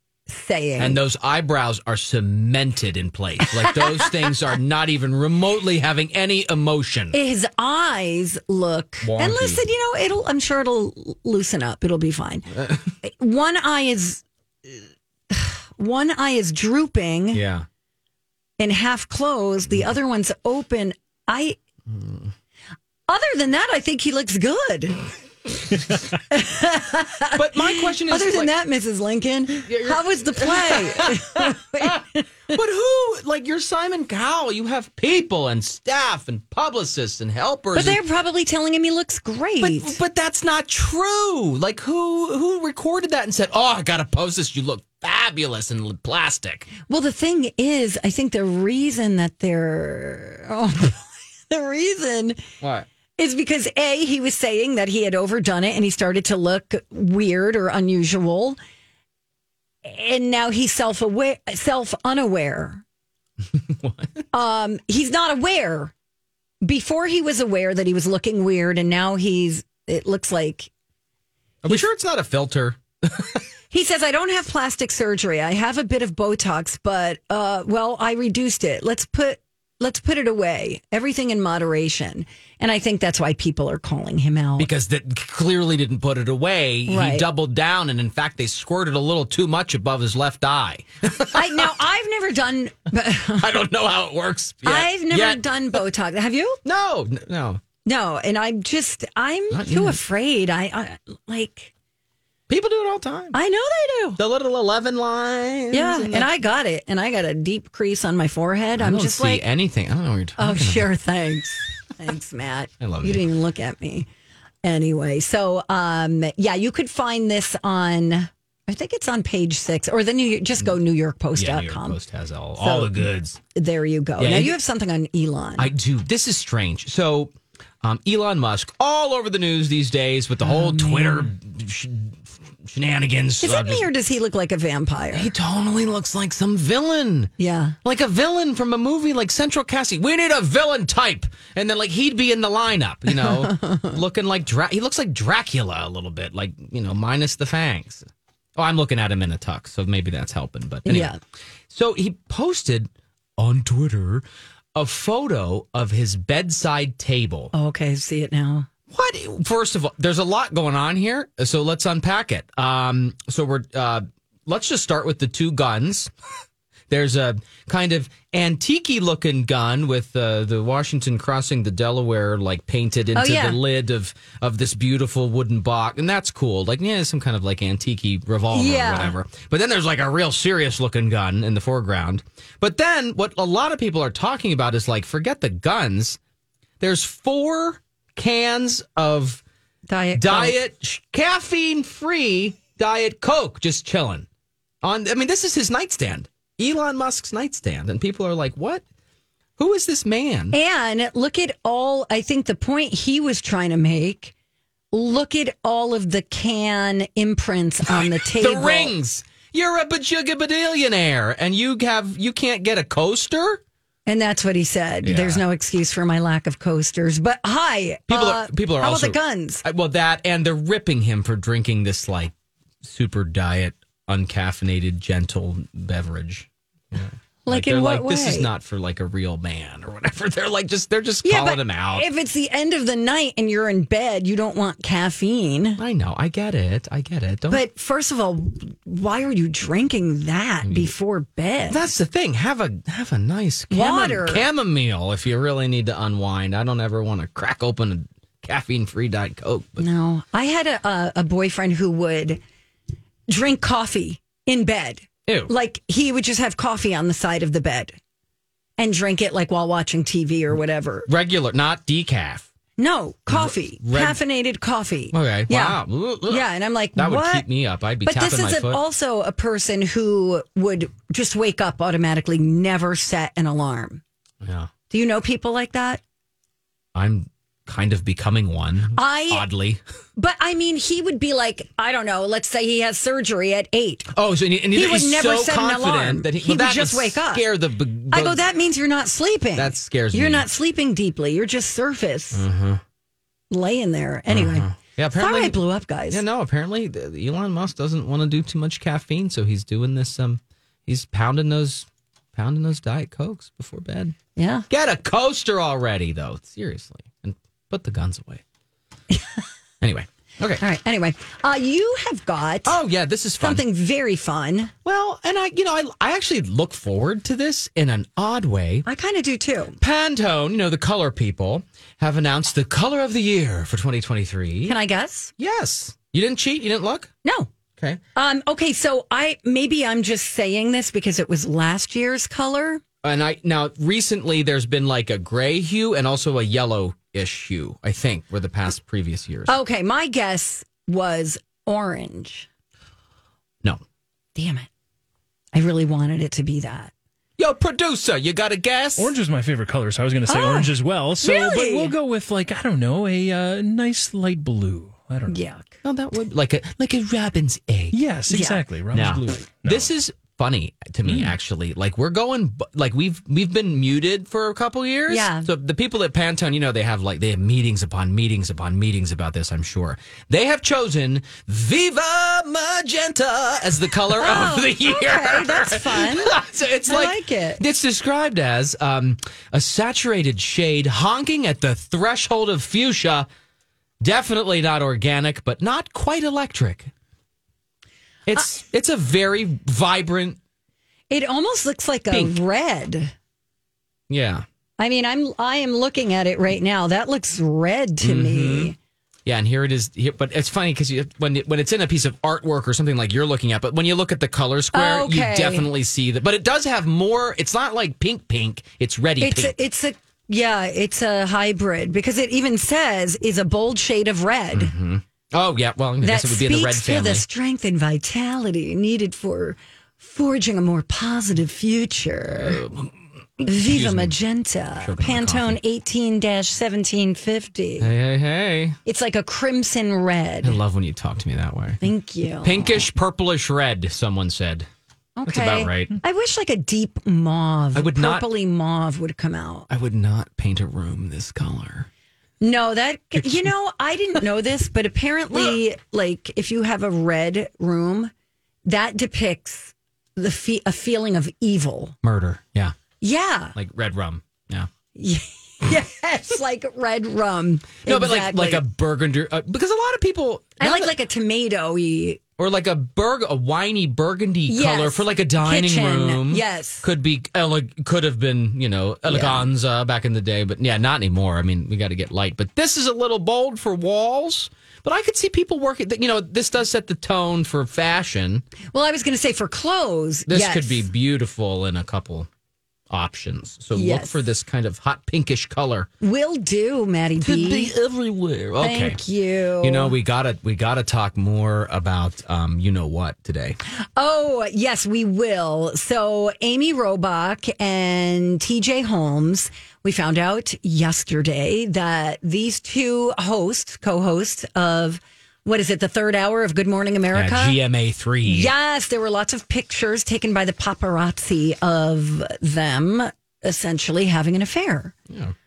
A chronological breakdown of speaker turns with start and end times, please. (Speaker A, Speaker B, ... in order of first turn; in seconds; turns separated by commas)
Speaker A: 0.3-1.0, Speaker B: 0.8-7.2, Speaker A: 3.7-3.9, Speaker A: 7.1-12.5, Speaker B: 9.0-9.6, Speaker B: 12.6-12.8, Speaker A: 13.0-17.4, Speaker B: 17.3-17.7, Speaker A: 18.6-21.6, Speaker B: 21.9-22.3, Speaker A: 23.1-25.0, Speaker A: 26.3-32.2, Speaker B: 27.3-28.5, Speaker B: 29.7-38.0, Speaker A: 37.7-40.0, Speaker B: 39.6-46.7, Speaker A: 46.9-52.4, Speaker B: 52.6-52.9, Speaker A: 53.2-58.6, Speaker A: 59.8-62.8, Speaker B: 63.5-64.2, Speaker A: 64.3-65.9, Speaker A: 66.6-70.7, Speaker B: 71.6-73.4, Speaker A: 73.7-84.7, Speaker B: 84.6-91.7, Speaker A: 86.9-87.3, Speaker A: 91.3-93.5, Speaker B: 93.3-95.8, Speaker A: 94.6-96.6, Speaker B: 96.6-97.6, Speaker A: 97.8-101.7, Speaker B: 99.5-100.0, Speaker B: 102.5-103.4, Speaker A: 103.3-104.2, Speaker B: 104.2-106.3, Speaker A: 105.7-109.4, Speaker B: 108.8-110.9, Speaker A: 110.4-114.1, Speaker B: 112.8-113.2, Speaker A: 114.6-122.0, Speaker B: 121.3-123.4, Speaker A: 122.6-125.7, Speaker B: 124.2-124.5, Speaker B: 125.6-133.9, Speaker A: 130.4-131.3, Speaker A: 133.4-135.3, Speaker B: 135.1-137.3, Speaker A: 137.4-137.8, Speaker B: 137.8-151.1, Speaker A: 143.2-143.9, Speaker A: 150.9-151.2, Speaker B: 151.7-157.5, Speaker A: 157.5-158.7, Speaker B: 158.9-166.1, Speaker B: 166.9-186.2, Speaker A: 173.1-173.6, Speaker A: 178.5-179.2, Speaker B: 186.8-189.4, Speaker A: 189.9-190.6, Speaker B: 190.2-194.3, Speaker B: 194.8-198.8, Speaker B: 199.6-200.6, Speaker A: 200.5-204.3, Speaker A: 204.9-208.9, Speaker B: 207.9-213.6, Speaker A: 214.1-219.6, Speaker B: 215.0-215.4, Speaker B: 218.1-232.1, Speaker A: 227.4-228.5, Speaker A: 231.2-235.8, Speaker B: 235.8-237.6, Speaker A: 237.5-241.8, Speaker B: 240.7-240.9, Speaker B: 241.7-249.8, Speaker A: 243.7-244.5, Speaker A: 249.8-252.4, Speaker A: 253.3-258.0, Speaker B: 255.3-255.5, Speaker A: 258.8-261.1, Speaker B: 261.1-262.5, Speaker A: 262.8-267.5, Speaker B: 263.3-264.2, Speaker B: 265.1-268.8, Speaker A: 268.0-274.0, Speaker B: 274.4-274.7, Speaker A: 274.9-276.0, Speaker B: 276.9-279.8, Speaker A: 278.9-279.5, Speaker A: 280.2-284.1, Speaker B: 284.1-288.4, Speaker A: 284.7-287.5, Speaker A: 288.1-292.4, Speaker B: 289.6-290.5, Speaker B: 292.3-292.8, Speaker A: 293.5-296.2, Speaker B: 294.3-304.2, Speaker A: 304.4-304.7, Speaker B: 304.7-308.4, Speaker B: 309.8-310.6, Speaker A: 310.6-312.8, Speaker B: 312.6-313.6, Speaker A: 313.4-314.7, Speaker B: 314.9-318.9, Speaker A: 318.9-319.8, Speaker B: 319.8-324.8, Speaker A: 324.7-325.3, Speaker B: 325.4-327.1, Speaker A: 327.2-327.5, Speaker A: 328.1-332.8, Speaker B: 333.0-339.6, Speaker A: 339.5-342.5, Speaker A: 344.4-344.7, Speaker A: 345.5-346.9, Speaker B: 347.4-349.1, Speaker C: 349.0-355.4, Speaker A: 350.3-352.0, Speaker A: 355.3-355.8, Speaker B: 355.8-358.0, Speaker C: 357.9-359.9, Speaker A: 358.3-358.6, Speaker B: 358.9-383.3, Speaker A: 365.1-365.5, Speaker A: 374.2-377.6, Speaker B: 384.0-386.9, Speaker B: 388.3-390.4, Speaker A: 391.1-393.1, Speaker B: 392.1-392.4, Speaker B: 394.1-394.4, Speaker A: 394.8-398.8, Speaker B: 398.0-398.7, Speaker B: 399.3-409.6, Speaker A: 404.7-405.7, Speaker A: 409.2-414.7, Speaker B: 414.5-417.2, Speaker A: 416.0-422.6, Speaker B: 422.3-424.2, Speaker A: 423.4-427.9, Speaker B: 424.8-425.6, Speaker B: 427.8-428.8, Speaker A: 428.9-430.6, Speaker B: 430.4-431.8, Speaker A: 431.8-432.9, Speaker B: 432.4-434.7, Speaker A: 435.2-439.7, Speaker B: 435.2-435.9, Speaker B: 437.7-438.3, Speaker B: 439.7-441.9, Speaker A: 442.4-448.1, Speaker A: 448.7-452.0, Speaker B: 452.0-452.8, Speaker A: 453.0-453.6, Speaker B: 453.6-454.7, Speaker A: 455.0-458.6, Speaker B: 457.8-460.9, Speaker A: 460.6-462.2, Speaker B: 462.4-478.4, Speaker A: 464.5-466.9, Speaker A: 469.1-469.4, Speaker A: 478.7-480.9, Speaker B: 480.3-482.3, Speaker B: 482.9-485.9, Speaker A: 483.7-484.3, Speaker A: 486.0-487.7, Speaker B: 487.2-489.0, Speaker A: 488.6-490.0, Speaker B: 489.6-493.6, Speaker A: 494.0-507.6, Speaker B: 507.1-508.5, Speaker A: 508.2-514.9